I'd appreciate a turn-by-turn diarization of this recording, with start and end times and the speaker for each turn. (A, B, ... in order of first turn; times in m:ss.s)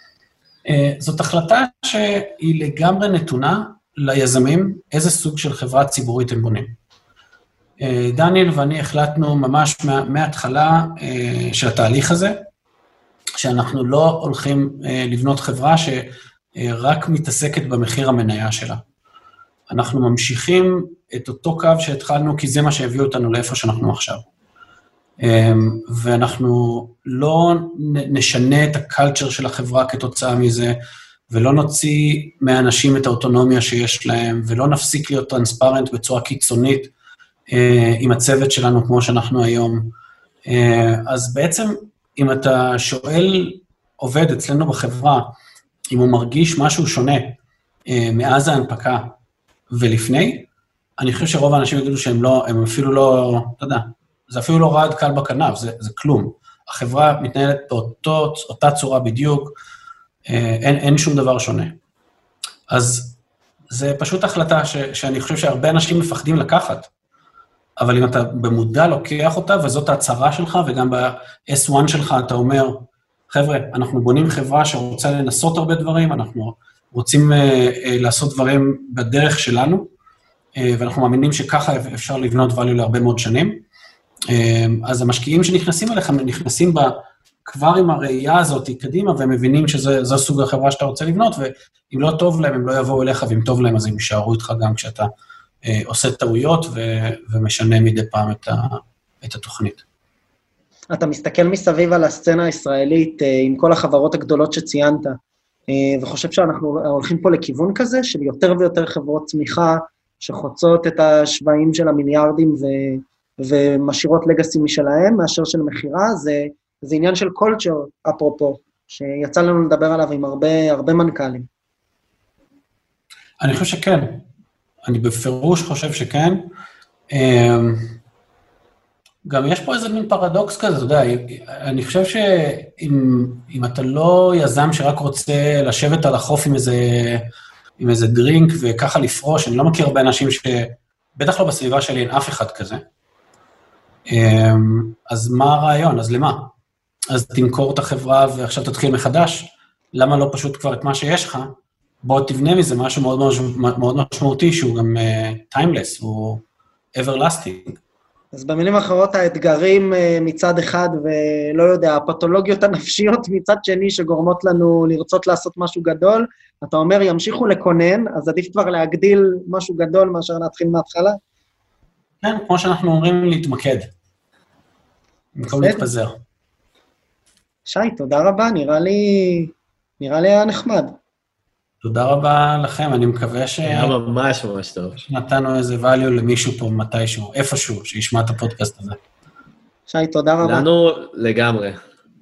0:00.6-0:06.7 A
0:07.8-0:12.4 A
0:13.4-0:18.8 A
0:19.7-0:24.2 A
0:25.2-0:30.8 A
0:31.3-0:36.9 A
0:37.5-0:39.9 A
0:40.4-0:45.3 A
0:45.9-0:47.4 A
0:47.9-0:49.1 A
0:49.7-0:50.5 A
0:51.0-0:59.6 A
1:00.3-1:01.8 A
1:02.7-1:03.2 A
1:03.7-1:06.9 A
1:07.8-1:19.9 A
1:20.6-1:23.6 A
1:24.3-1:35.1 A
1:35.6-1:39.8 A
1:40.9-1:45.2 B
1:45.7-2:01.5 B
2:03.4-2:04.2 A
2:04.8-2:06.4 A
2:07.1-2:07.9 A
2:09.2-2:17.3 A
2:17.8-2:22.8 A
2:24.1-2:26.5 A
2:27.1-2:31.5 A
2:32.0-2:36.4 A
2:36.9-2:37.8 A
2:38.3-2:51.2 B
2:52.2-2:53.9 A
2:55.4-2:56.2 A
2:55.6-2:55.8 B
2:57.7-3:00.9 B
3:01.8-3:03.9 A
3:03.6-3:05.0 C
3:05.0-3:09.0 A
3:09.9-3:10.7 B
3:10.4-3:11.8 C